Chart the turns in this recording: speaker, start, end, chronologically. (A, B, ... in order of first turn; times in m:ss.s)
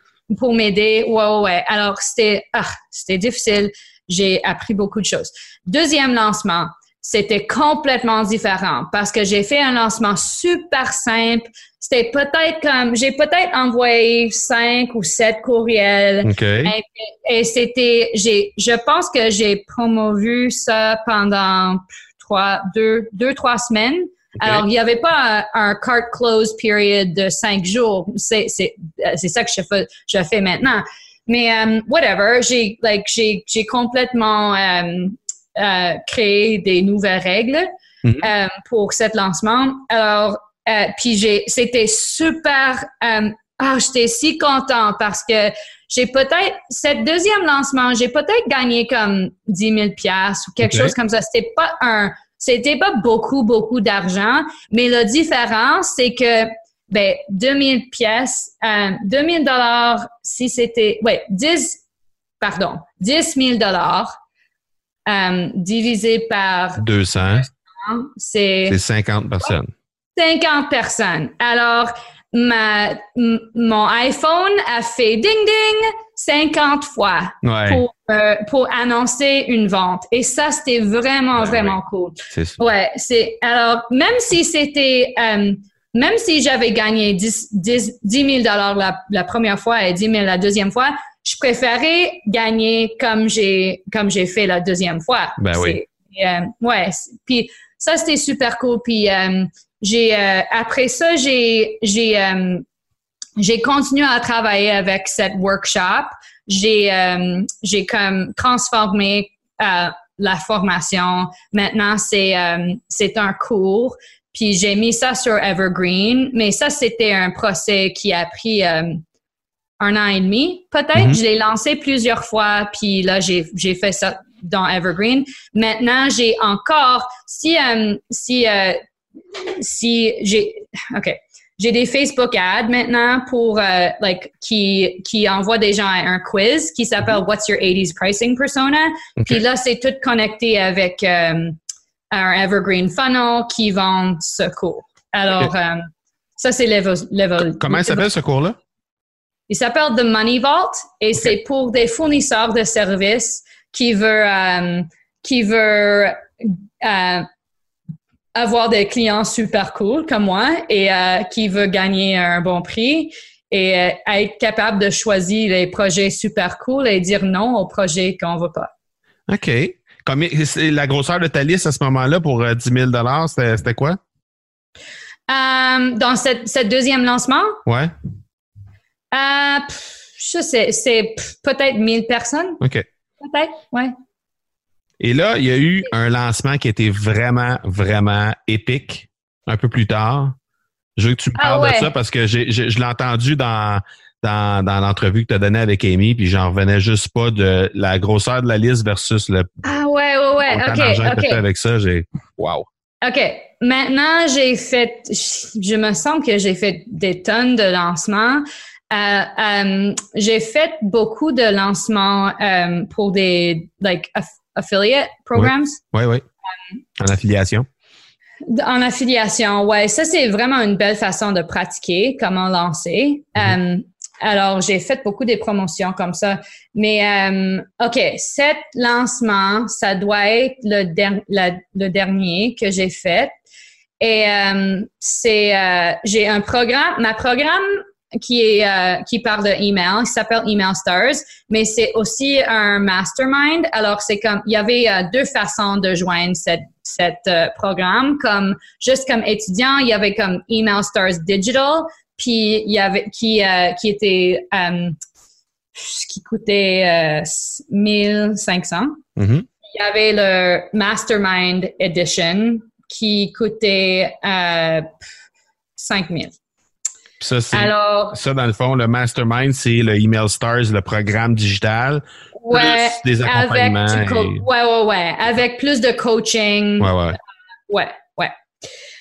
0:00.3-0:37.7 A
0:16.2-0:16.7 B
0:24.4-0:24.6 B
0:38.0-0:38.3 B
0:38.2-1:01.8 A
0:50.6-0:50.9 B
1:02.4-1:04.1 A
1:05.0-1:08.8 A
1:06.8-1:07.5 B
1:08.7-1:09.7 B
1:10.2-1:42.6 A
1:17.4-1:17.8 B
1:21.4-1:21.8 B
1:22.3-1:22.6 B
1:35.4-1:35.8 B
1:43.4-1:59.0 A
1:59.8-2:08.8 A
2:00.9-2:01.2 B
2:09.3-2:21.6 A
2:22.1-2:28.0 A
2:27.4-2:28.6 B
2:29.5-2:37.2 A
2:38.3-2:48.7 A
2:49.3-2:54.0 B
2:55.3-2:57.6 A
2:57.6-2:57.9 B
2:59.1-3:02.6 A
3:02.6-3:02.8 B
3:03.2-3:03.9 A
3:05.0-3:10.4 B
3:11.0-3:19.5 B
3:11.4-3:11.9 A
3:19.6-3:21.4 A
3:20.4-3:22.6 B
3:23.0-3:35.8 A
3:35.4-3:36.2 B
3:37.0-3:37.7 B
3:38.5-3:53.3 A
3:54.0-4:15.0 A
4:15.7-4:19.0 A
4:19.2-4:19.4 B
4:19.7-4:24.9 A
4:25.8-4:26.4 A
4:27.2-4:34.4 B
4:27.5-4:28.2 A
4:32.4-4:36.9 A
4:36.8-4:37.2 B
4:37.7-4:38.3 A